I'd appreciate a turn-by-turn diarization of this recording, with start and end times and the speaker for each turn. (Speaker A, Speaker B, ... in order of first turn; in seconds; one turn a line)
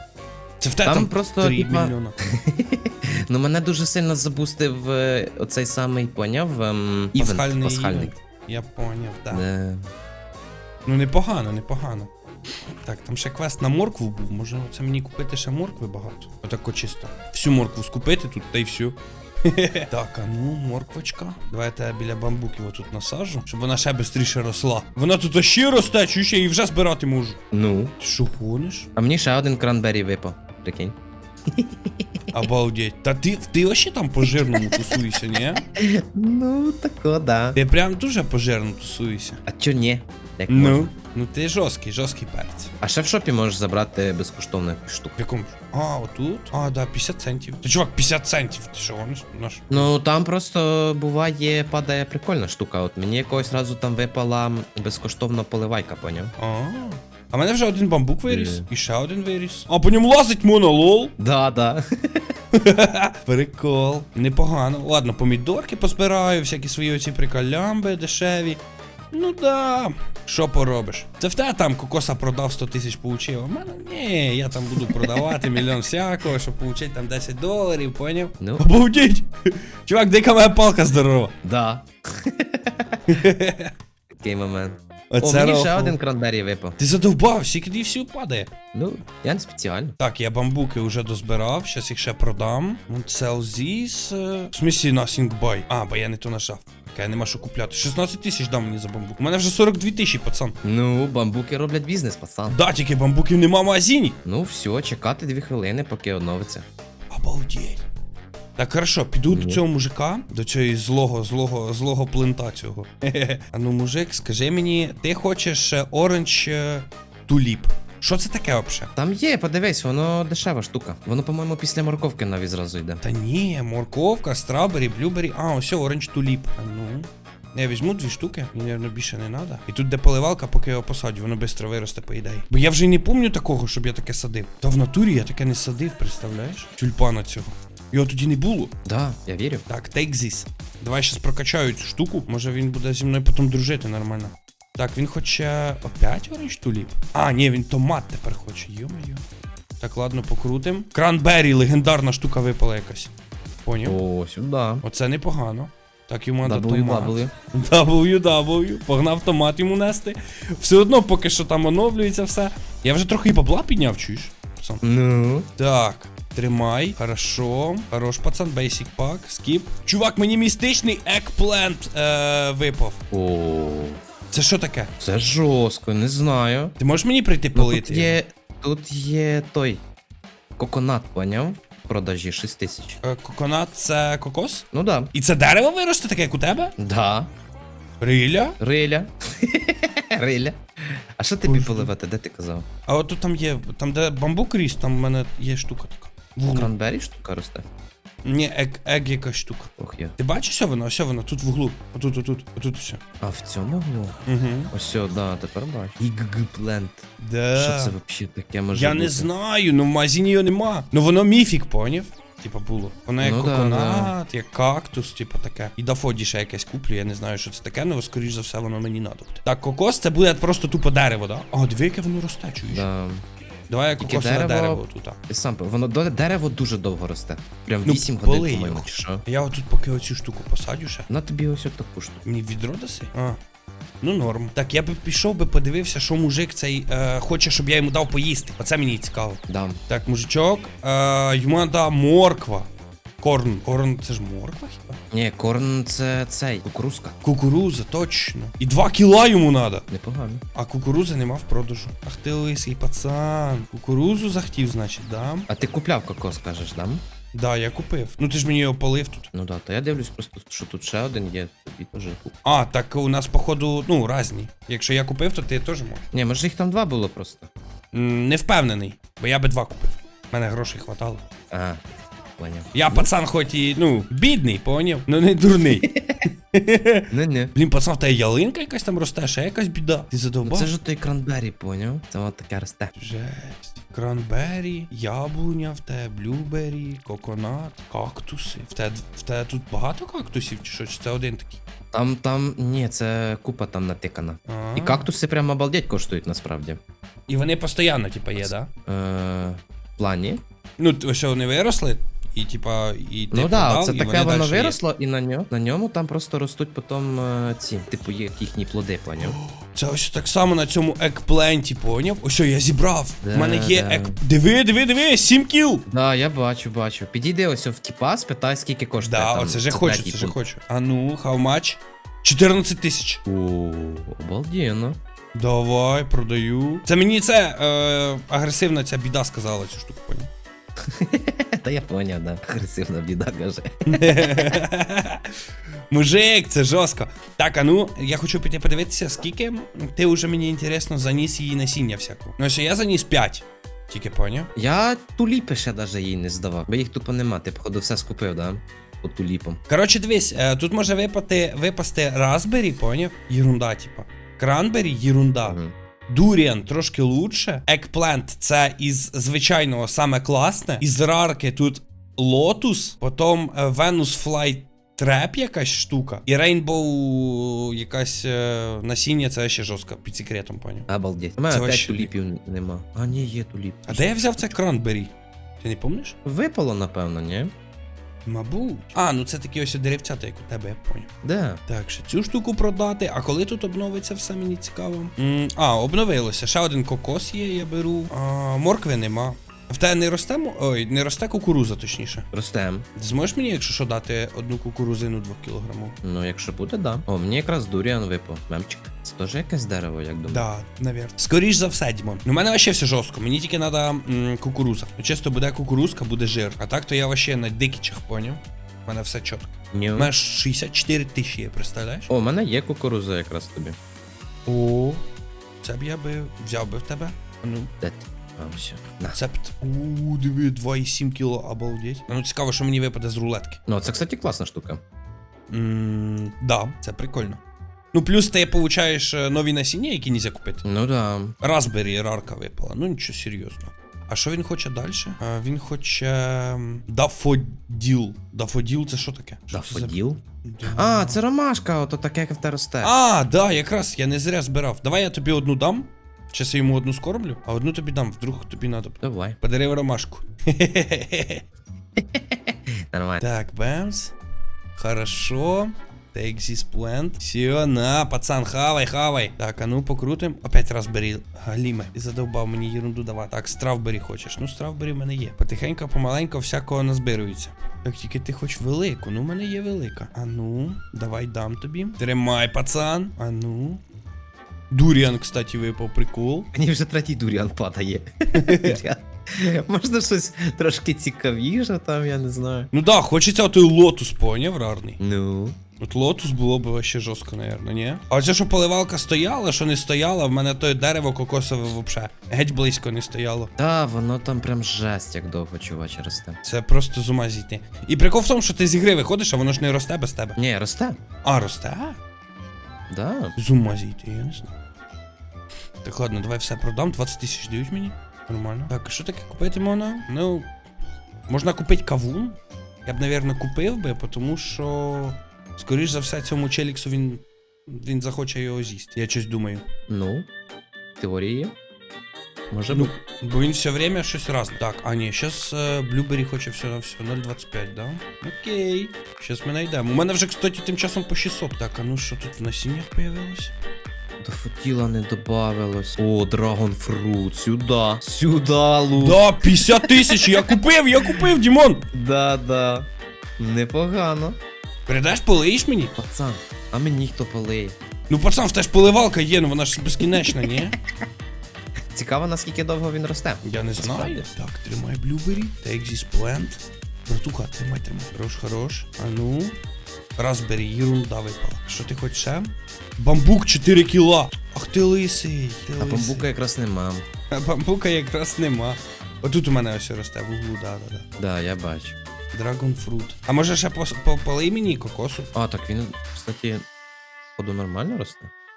Speaker A: 0.6-2.1
Speaker B: 0.8-8.1
Speaker A: 7.1-9.4
Speaker B: 9.3-9.9
Speaker A: 10.8-12.1
Speaker A: 12.8-27.4
Speaker B: 27.5-27.9
Speaker A: 28.0-28.9
Speaker B: 28.9-30.9
Speaker B: 31.5-32.4
Speaker A: 32.3-35.6
Speaker B: 34.2-35.0
Speaker B: 35.7-37.6
Speaker A: 37.5-39.4
Speaker B: 39.5-40.9
Speaker A: 40.5-42.7
Speaker B: 42.8-45.2
Speaker A: 45.2-49.9
Speaker B: 49.7-56.3
Speaker A: 56.4-61.1
Speaker B: 58.3-58.6
Speaker B: 61.2-62.3
Speaker A: 62.5-68.6
Speaker A: 69.1-81.3
Speaker B: 74.8-75.5
Speaker B: 78.4-78.6
Speaker B: 81.4-83.0
Speaker A: 83.1-83.7
Speaker B: 84.2-86.8
Speaker A: 85.1-86.0
Speaker A: 86.8-88.5
Speaker B: 88.7-90.0
Speaker A: 90.0-100.5
Speaker B: 100.6-102.5
Speaker A: 102.5-104.2
Speaker B: 104.2-106.7
Speaker A: 107.1-107.8
Speaker A: 108.6-118.9
Speaker B: 109.3-109.6
Speaker B: 119.0-123.0
Speaker A: 123.0-138.7
Speaker B: 138.8-139.7
Speaker A: 139.7-149.2
Speaker A: 149.8-153.1
Speaker A: 153.6-154.0
Speaker B: 153.8-154.8
Speaker A: 154.8-164.8
Speaker B: 156.4-157.3
Speaker B: 164.8-165.5
Speaker A: 165.6-173.0
Speaker B: 173.1-174.0
Speaker A: 174.3-174.9
Speaker B: 175.0-176.7
Speaker A: 176.8-178.2
Speaker B: 177.5-179.8
Speaker B: 180.6-183.0
Speaker A: 183.0-186.7
Speaker B: 184.7-185.1
Speaker B: 186.8-187.3
Speaker A: 188.0-188.6
Speaker B: 188.6-192.7
Speaker A: 191.4-191.9
Speaker A: 192.9-196.7
Speaker B: 196.5-197.6
Speaker A: 198.2-203.0
Speaker B: 199.8-200.2
Speaker B: 203.2-204.2
Speaker A: 204.3-204.7
Speaker B: 204.7-207.0
Speaker A: 207.2-207.9
Speaker B: 207.5-209.3
Speaker A: 208.7-222.9
Speaker B: 213.2-214.1
Speaker B: 222.7-223.2
Speaker A: 223.7-225.2
Speaker B: 224.0-229.2
Speaker A: 227.8-231.1
Speaker B: 231.1-232.2
Speaker A: 232.2-233.4
Speaker A: 234.0-242.7
Speaker B: 239.5-239.8
Speaker A: 243.2-245.0
Speaker B: 245.1-247.2
Speaker A: 247.2-249.8
Speaker B: 249.9-250.4
Speaker A: 250.5-255.5
Speaker B: 255.5-257.0
Speaker A: 257.3-259.3
Speaker B: 259.3-262.3
Speaker A: 262.4-266.0
Speaker B: 266.1-267.5
Speaker A: 267.9-271.2
Speaker B: 271.5-271.8
Speaker B: 272.4-273.1
Speaker A: 272.7-280.7
Speaker B: 275.8-276.2
Speaker B: 277.1-277.5
Speaker B: 280.4-282.9
Speaker A: 282.9-291.6
Speaker B: 291.9-296.8
Speaker A: 294.5-295.1
Speaker A: 297.3-298.7
Speaker B: 298.4-300.4
Speaker A: 300.8-304.8
Speaker B: 303.3-309.4
Speaker A: 309.2-315.8
Speaker B: 313.2-314.2
Speaker B: 315.9-320.4
Speaker A: 319.0-323.2
Speaker B: 323.2-325.0
Speaker A: 325.3-330.3
Speaker B: 330.8-334.6
Speaker A: 333.9-335.3
Speaker A: 335.9-344.5
Speaker B: 344.6-349.6
Speaker A: 349.7-355.6
Speaker B: 355.4-355.7
Speaker A: 356.1-370.9
Speaker B: 370.9-374.5
Speaker A: 371.5-372.1
Speaker A: 373.9-376.1
Speaker B: 376.2-377.5
Speaker A: 378.2-381.1
Speaker B: 381.2-381.6
Speaker A: 381.7-392.2
Speaker B: 392.3-392.9
Speaker A: 393.0-396.0
Speaker B: 396.0-400.4
Speaker A: 400.3-412.1
Speaker B: 409.7-410.1
Speaker B: 412.1-413.8
Speaker A: 414.4-415.0
Speaker A: 415.6-417.7
Speaker B: 417.8-419.2
Speaker A: 419.1-423.6
Speaker B: 423.7-424.8
Speaker A: 425.5-427.4
Speaker A: 427.9-430.6
Speaker B: 430.6-431.4
Speaker A: 431.4-441.2
Speaker B: 439.5-442.9
Speaker A: 442.8-451.4
Speaker B: 449.0-449.4
Speaker B: 452.0-453.2
Speaker A: 453.2-454.1
Speaker A: 454.8-473.8
Speaker A: 474.7-476.5
Speaker B: 476.5-482.7
Speaker A: 478.3-478.8
Speaker A: 482.7-485.0
Speaker B: 485.0-485.6
Speaker A: 485.8-493.5
Speaker B: 493.6-496.4
Speaker A: 496.4-500.4
Speaker B: 500.4-501.0
Speaker A: 501.2-502.0
Speaker B: 502.9-503.3
Speaker A: 503.4-504.5
Speaker A: 505.8-510.5
Speaker A: 511.3-519.6
Speaker B: 519.9-520.3
Speaker B: 521.0-521.5
Speaker B: 522.5-522.9
Speaker A: 522.7-533.5
Speaker B: 534.2-540.5
Speaker A: 538.9-541.8
Speaker B: 541.9-542.9
Speaker B: 543.4-544.4
Speaker A: 544.9-545.9
Speaker B: 546.0-547.8
Speaker A: 548.1-550.8
Speaker B: 550.0-550.7
Speaker B: 551.9-554.3
Speaker A: 553.4-559.5
Speaker A: 560.2-566.3
Speaker B: 565.8-567.0
Speaker A: 567.3-571.0
Speaker B: 571.2-571.9
Speaker A: 572.3-575.3
Speaker B: 575.3-576.6
Speaker B: 577.4-578.3